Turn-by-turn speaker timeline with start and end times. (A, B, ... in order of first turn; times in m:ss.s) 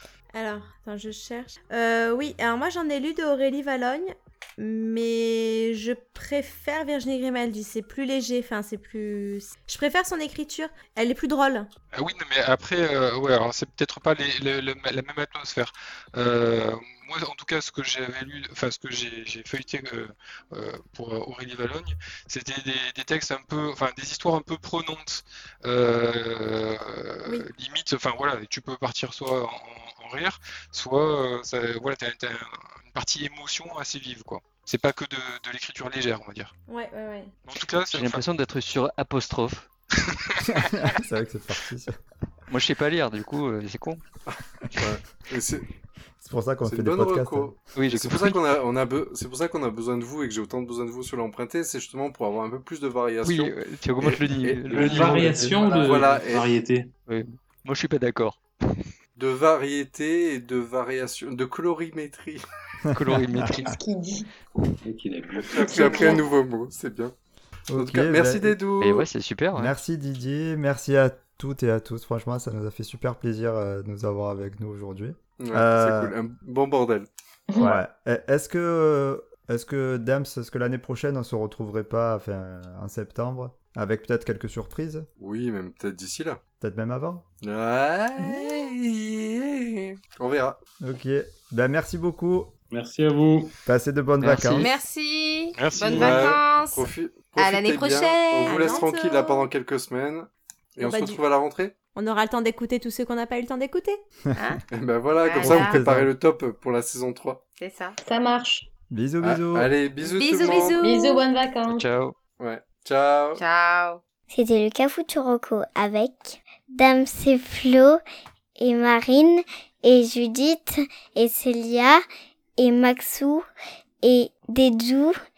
0:00.3-0:11.7 A
0:11.9-0:36.5 B
0:36.7-0:37.3 A
0:37.4-0:38.2 B
0:37.9-0:39.7 C
0:40.0-0:40.4 B
0:40.4-0:42.0 D
0:42.5-0:44.0 C
0:44.8-0:45.7 E
0:46.2-0:47.6 D
0:46.6-0:56.6 E
0:47.7-0:48.4 C
0:53.2-0:55.2 C
0:54.7-0:56.9 F
0:55.2-0:55.5 D
0:57.1-0:58.7 C
0:59.2-1:02.4 E
1:02.8-1:03.8 D
1:02.9-1:03.8 C
1:03.6-1:04.3 G
1:04.8-1:06.1 F
1:05.3-1:07.1 E
1:05.6-1:06.2 G
1:07.7-1:08.6 D
1:07.8-1:09.1 E
1:08.8-1:09.7 C
1:09.6-1:16.1 D
1:15.4-1:17.1 E
1:17.5-1:17.8 G
1:17.6-1:25.1 D
1:25.2-1:26.4 E
1:26.6-1:27.2 D
1:27.4-1:30.6 E
1:28.2-1:28.6 D
1:30.8-1:32.5 D
1:32.7-1:33.6 F
1:33.6-1:34.7 D
1:34.2-1:34.7 C
1:34.6-1:39.3 H
1:35.6-1:36.3 B
1:35.8-1:41.7 E
1:38.4-1:39.4 A
1:40.8-1:41.2 A
1:41.9-1:44.0 A
1:44.3-1:44.6 H
1:44.7-1:47.4 E
1:45.2-1:45.8 H
1:45.4-1:46.1 D
1:47.6-1:48.0 H
1:48.0-1:48.7 G
1:48.9-1:49.7 D
1:49.2-1:50.8 E
1:50.0-1:51.2 H
1:50.5-1:51.8 G
1:51.7-1:52.1 C
1:52.4-1:53.4 E
1:53.4-1:54.0 H
1:54.3-1:58.0 I
1:58.6-2:02.0 I
2:02.6-2:03.4 I
2:04.0-2:05.2 I